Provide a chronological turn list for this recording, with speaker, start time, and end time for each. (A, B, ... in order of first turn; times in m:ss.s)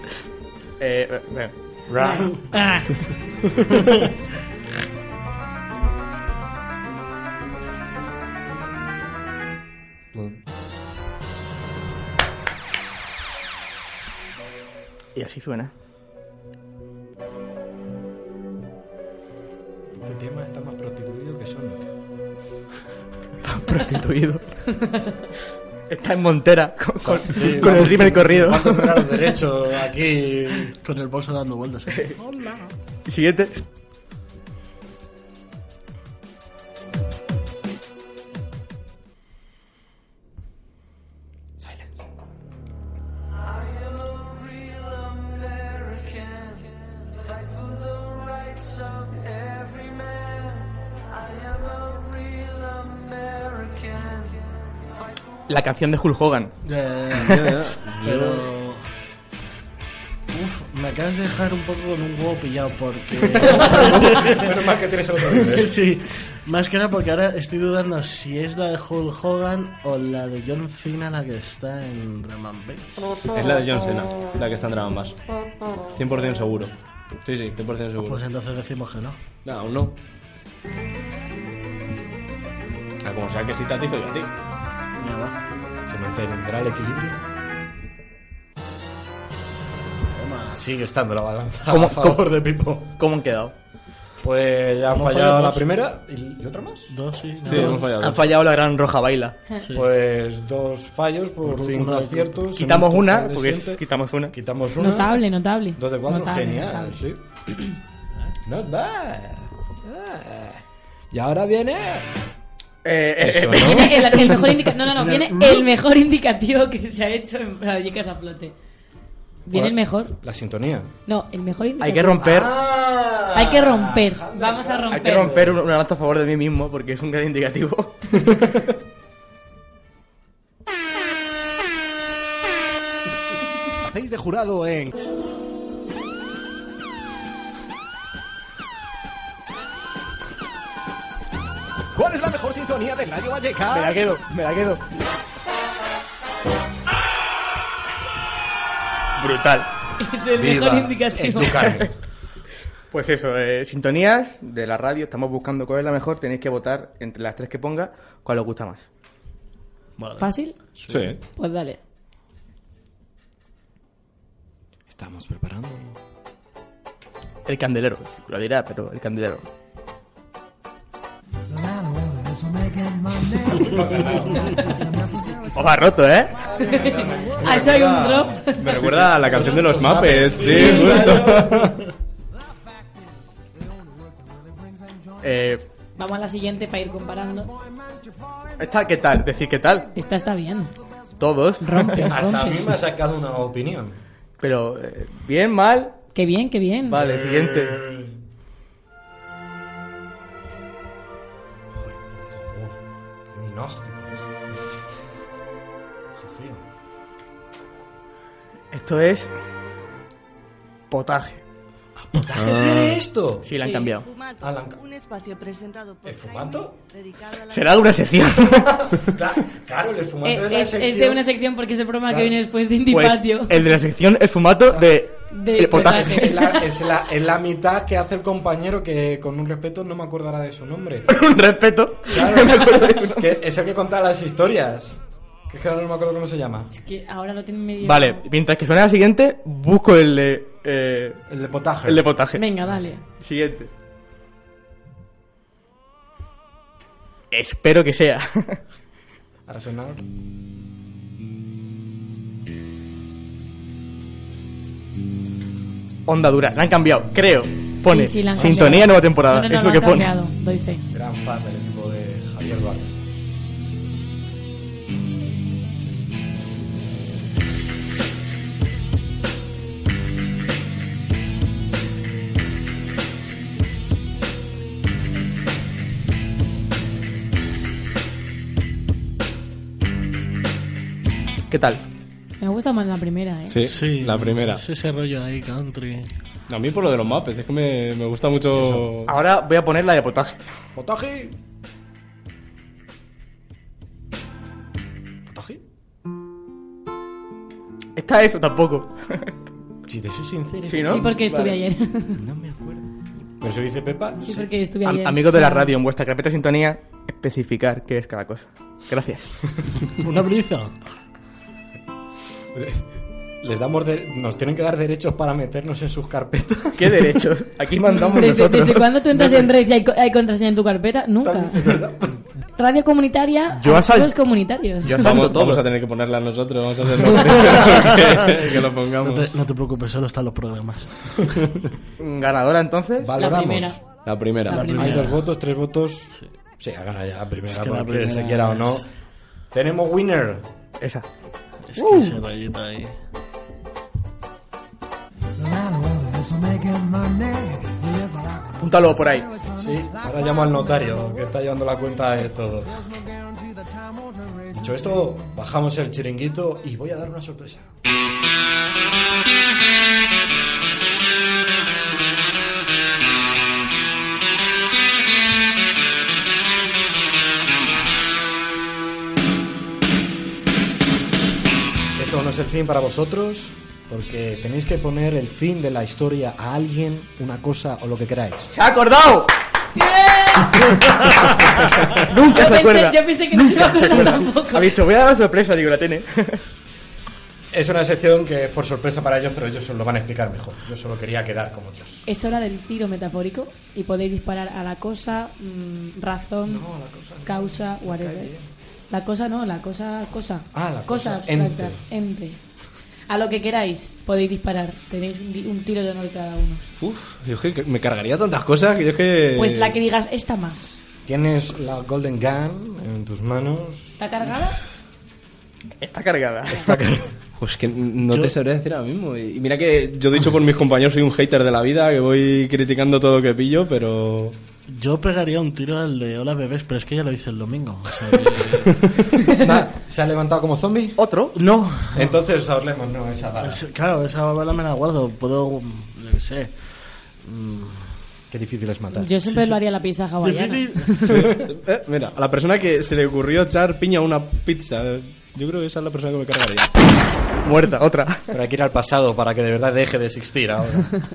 0:00.8-0:02.1 A
0:02.0-0:03.0 B
0:10.1-0:10.4 C
0:15.2-0:15.7 A
0:19.9-0:21.9 C
0:23.4-0:24.8 A
0:25.9-0:29.0 A
0:27.0-0:30.7 C
0:27.3-0:28.2 D
0:30.5-0:32.7 D
0:31.9-0:32.2 A
0:33.1-0:33.6 A
0:41.6-0:42.0 C
0:55.5-0:56.5 A
0:56.6-0:58.8 D
0:57.2-0:58.5 E
1:00.3-1:04.6 D
1:03.4-1:05.8 C
1:05.3-1:13.2 D
1:13.3-1:15.2 E
1:16.0-1:18.2 E
1:18.0-1:19.2 D
1:19.4-1:20.0 E
1:23.0-1:24.3 E
1:25.0-1:25.4 D
1:25.8-1:27.2 C
1:30.1-1:30.6 D
1:30.5-1:32.9 C
1:31.7-1:33.5 A
1:34.2-1:36.9 C
1:34.9-1:35.6 D
1:36.9-1:38.2 D
1:37.4-1:38.3 E
1:38.0-1:39.4 A
1:39.6-1:39.9 D
1:39.7-1:45.2 C
1:41.5-1:42.4 D
1:42.5-1:44.4 A
1:44.8-1:47.0 B
1:45.8-1:47.2 C
1:48.4-1:52.1 C
1:52.8-1:54.0 A
1:53.2-1:54.4 C
1:53.6-1:58.5 B
1:54.9-1:55.7 D
1:59.5-2:00.1 B
1:59.5-2:00.9 C
2:01.1-2:02.3 B
2:01.8-2:02.5 A
2:02.2-2:05.6 C
2:03.3-2:05.3 B
2:04.9-2:08.0 A
2:08.3-2:08.6 C
2:13.8-2:14.9 C
2:22.0-2:24.0 C
2:23.7-2:24.8 A
2:29.2-2:29.7 A
2:30.0-2:31.8 B
2:30.3-2:31.9 C
2:32.9-2:38.9 A
2:40.0-2:41.2 D
2:40.2-2:40.6 B
2:40.9-2:41.2 E
2:41.4-2:41.8 B
2:44.9-2:46.0 C
2:47.5-2:49.4 A
2:53.6-2:54.5 E
2:53.7-2:54.5 C
2:55.5-2:56.4 A
2:56.4-3:01.8 C
2:56.7-2:58.7 B
2:58.6-3:01.8 E
3:00.5-3:01.0 B
3:05.2-3:05.6 A
3:06.0-3:07.5 B
3:08.6-3:09.9 A
3:09.9-3:10.7 B
3:11.2-3:12.1 A
3:11.6-3:12.6 B
3:12.1-3:14.0 C
3:14.4-3:16.0 A
3:16.1-3:17.0 B
3:16.9-3:17.8 A
3:17.0-3:18.1 C
3:21.8-3:24.3 C
3:26.2-3:26.6 C
3:28.7-3:29.3 A
3:30.9-3:31.4 A
3:32.0-3:33.5 C
3:32.4-3:32.8 E
3:33.4-3:34.1 A
3:33.6-3:33.9 B
3:34.4-3:34.8 C
3:36.0-3:36.8 C
3:37.4-3:38.9 A
3:38.4-3:41.2 C
3:40.2-3:43.7 B
3:42.1-3:42.4 C
3:42.9-3:46.4 A
3:44.7-3:45.0 C
3:45.3-3:46.7 B
3:45.7-3:51.1 C
3:51.1-3:53.3 A
3:52.1-3:56.7 C
3:56.7-3:58.2 B
3:57.8-4:01.2 A
4:01.3-4:02.1 C
4:01.8-4:02.4 A
4:02.4-4:03.0 B
4:03.2-4:03.7 A
4:07.3-4:08.6 A
4:09.5-4:10.0 C
4:16.1-4:20.1 A
4:17.9-4:20.8 B
4:18.3-4:18.8 C
4:20.9-4:22.9 C
4:41.5-4:41.8 A
4:42.4-4:43.6 B
4:43.5-4:44.6 E
4:43.6-4:46.1 D
4:46.5-4:49.2 E
4:49.1-4:50.5 A
4:50.8-4:51.3 C
4:55.3-4:55.6 C
4:58.0-4:59.3 A
4:59.9-5:01.2 C
5:00.6-5:01.6 A
5:00.9-5:02.2 B
5:02.2-5:02.9 C
5:03.4-5:04.5 C
5:04.2-5:05.7 B
5:04.8-5:09.3 A
5:10.0-5:10.8 D
5:12.5-5:17.2 C
5:16.8-5:19.5 A
5:17.9-5:21.8 B
5:21.2-5:22.2 C
5:22.6-5:25.1 B
5:23.5-5:24.1 A
5:24.8-5:25.6 A
5:24.9-5:29.3 E
5:27.1-5:28.2 D
5:29.0-5:31.6 D
5:32.0-5:33.1 A
5:33.0-5:33.8 C
5:33.2-5:33.8 B
5:34.0-5:34.8 E
5:34.5-5:34.9 B
5:34.5-5:35.2 D
5:34.5-5:38.9 C
5:37.5-5:38.8 D
5:39.5-5:40.5 C
5:40.8-5:41.1 A
5:41.7-5:42.9 D
5:48.6-5:49.4 A
5:49.5-5:52.9 C
5:54.5-5:57.7 C
6:12.0-6:18.5 C
6:18.5-6:19.3 A
6:19.8-6:20.9 B
6:21.2-6:26.4 A
6:22.1-6:24.8 B
6:27.5-6:32.0 C
6:32.1-6:36.7 B
6:36.5-6:38.5 C
6:37.2-6:38.3 B
6:38.9-6:42.4 B
6:40.5-6:41.8 C
6:43.1-6:46.6 B
6:46.8-6:49.8 E
6:49.4-6:50.8 B
6:51.1-6:54.0 C
6:54.0-6:54.6 B
6:55.8-6:57.0 A
6:56.6-6:57.1 C
6:57.4-7:04.4 E
7:04.7-7:09.0 D
7:09.3-7:11.0 C
7:11.0-7:11.4 A
7:11.4-7:12.2 D
7:11.9-7:13.6 C
7:13.4-7:17.9 D
7:18.3-7:19.1 C
7:18.9-7:21.2 B
7:19.2-7:19.6 D
7:20.2-7:21.0 D
7:21.1-7:21.4 C
7:21.4-7:26.7 E
7:27.4-7:28.3 A
7:28.3-7:31.0 C